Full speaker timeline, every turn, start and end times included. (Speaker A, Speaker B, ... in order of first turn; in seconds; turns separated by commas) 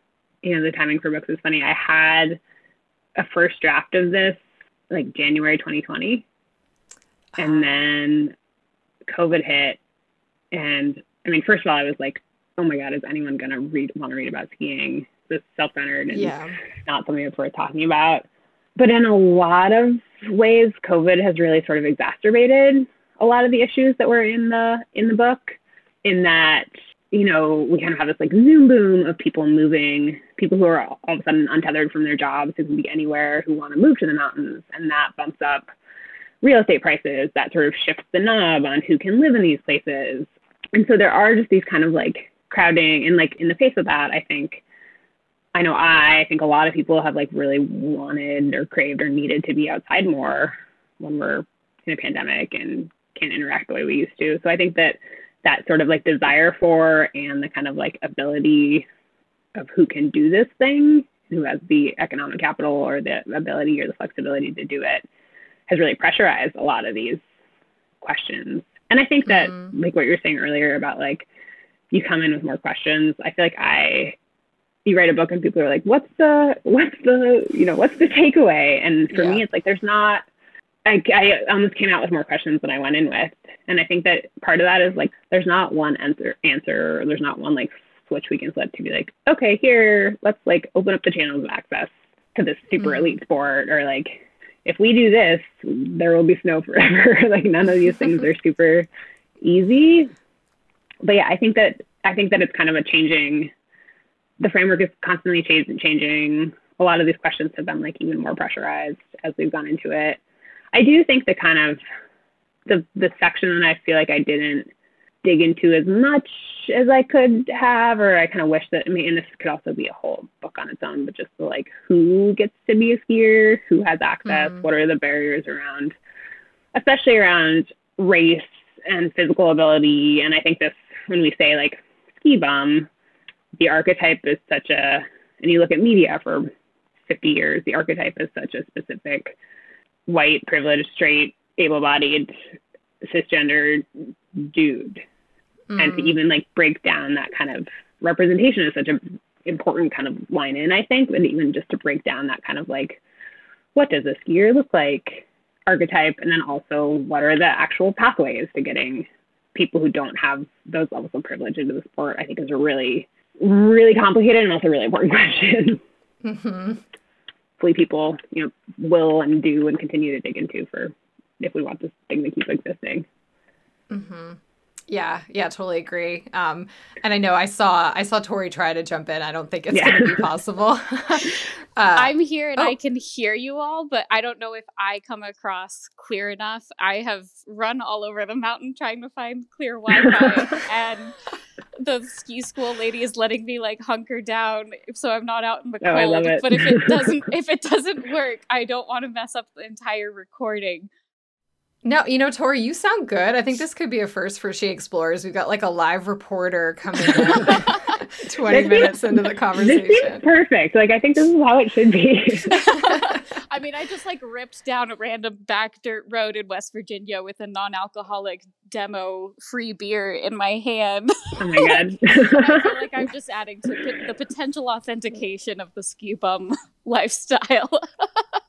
Speaker A: 0.4-2.4, Speaker A: 3.1-6.2, Speaker A: 7.4-8.3, Speaker A: 9.1-9.8, Speaker A: 10.5-35.6, Speaker B: 16.1-16.6, Speaker A: 36.4-44.6, Speaker A: 45.5-58.9, Speaker A: 59.5-65.0, Speaker A: 65.7-67.2, Speaker A: 68.0-71.3, Speaker B: 69.4-69.7, Speaker A: 71.9-74.2, Speaker A: 74.8-80.2, Speaker B: 79.1-79.4, Speaker A: 80.8-98.9, Speaker A: 99.4-100.1, Speaker A: 101.0-103.5, Speaker A: 104.4-110.2, Speaker A: 110.7-111.8, Speaker A: 112.7-114.7, Speaker A: 115.2-126.0, Speaker B: 124.3-124.6, Speaker A: 126.7-132.9, Speaker A: 133.6-136.5, Speaker A: 137.1-139.4, Speaker A: 140.1-142.3, Speaker A: 143.0-145.0, Speaker B: 145.7-146.2, Speaker A: 145.8-153.0, Speaker A: 153.7-165.8, Speaker B: 166.2-166.8, Speaker A: 167.6-173.1, Speaker B: 173.9-182.7, Speaker A: 179.7-180.2, Speaker C: 181.9-191.2, Speaker A: 189.9-190.4, Speaker C: 191.8-200.9, Speaker A: 195.8-197.2, Speaker B: 201.8-210.2, Speaker C: 207.5-207.8, Speaker A: 208.5-208.9, Speaker A: 209.6-212.6, Speaker C: 212.5-228.4, Speaker A: 221.4-223.1